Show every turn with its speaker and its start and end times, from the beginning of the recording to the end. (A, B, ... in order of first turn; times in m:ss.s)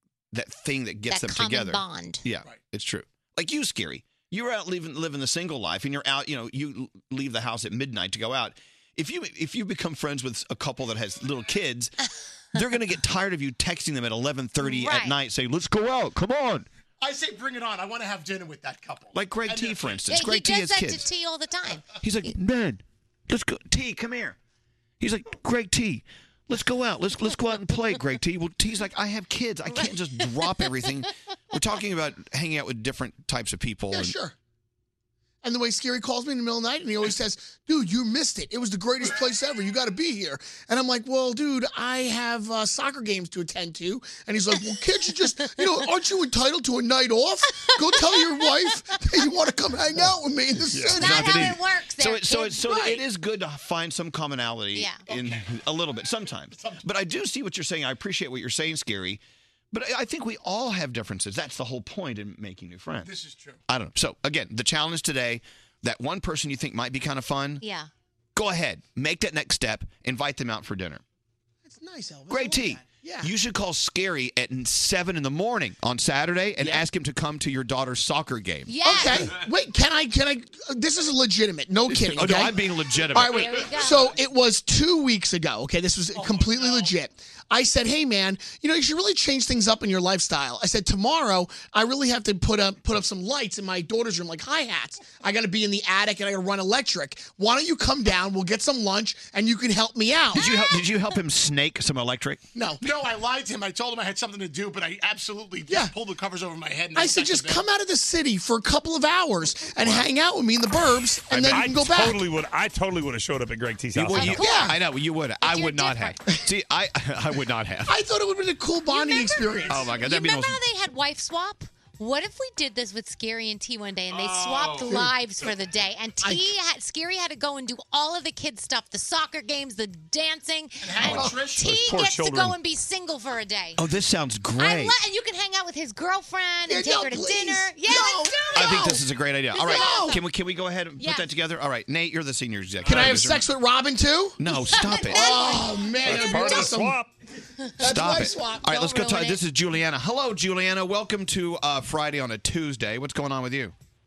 0:00.3-0:11.9 A
0:01.1-0:02.2 B
0:12.5-0:16.6 A
0:14.6-0:15.2 B
0:17.0-0:20.0 C
0:19.1-0:21.1 A
0:20.1-0:21.9 B
0:22.0-0:24.4 A
0:25.0-0:34.2 A
0:33.9-0:34.3 D
0:35.4-0:51.4 D
0:47.6-0:48.5 B
0:50.7-0:51.0 E
0:50.9-1:03.1 A
0:51.0-0:52.8 B
0:52.7-0:53.0 D
0:54.7-0:55.1 B
0:55.1-0:55.3 C
1:03.0-1:03.6 C
1:03.7-1:07.6 A
1:07.6-1:07.9 B
1:08.3-1:11.0 A
1:11.6-1:13.3 D
1:12.3-1:18.7 A
1:18.7-1:19.3 B
1:18.8-1:22.6 D
1:21.9-1:23.6 A
1:23.1-1:40.4 D
1:23.3-1:24.1 B
1:26.2-1:26.9 C
1:40.3-1:42.4 A
1:40.4-1:40.9 B
1:42.5-1:42.8 D
1:42.8-1:47.6 C
1:45.7-1:45.9 D
1:46.9-1:52.2 D
1:49.8-1:50.1 A
1:51.3-1:51.6 A
1:51.3-1:54.4 E
1:53.9-1:58.0 A
1:54.1-1:54.8 B
1:54.4-1:54.7 D
1:55.4-1:56.2 B
1:57.8-1:59.9 D
1:58.9-2:13.8 B
1:59.7-2:00.6 A
2:04.5-2:05.0 C
2:10.8-2:11.7 C
2:11.0-2:12.6 E
2:11.0-2:11.3 D
2:13.8-2:15.0 A
2:14.6-2:19.0 B
2:16.7-2:19.0 D
2:18.5-2:23.5 A
2:19.5-2:20.2 B
2:19.6-2:20.2 D
2:21.0-2:21.3 B
2:22.8-2:24.4 D
2:24.4-2:25.5 A
2:24.6-2:26.7 B
2:25.1-2:27.0 D
2:26.0-2:27.1 E
2:27.8-2:28.9 D
2:27.8-2:33.7 A
2:28.7-2:29.4 B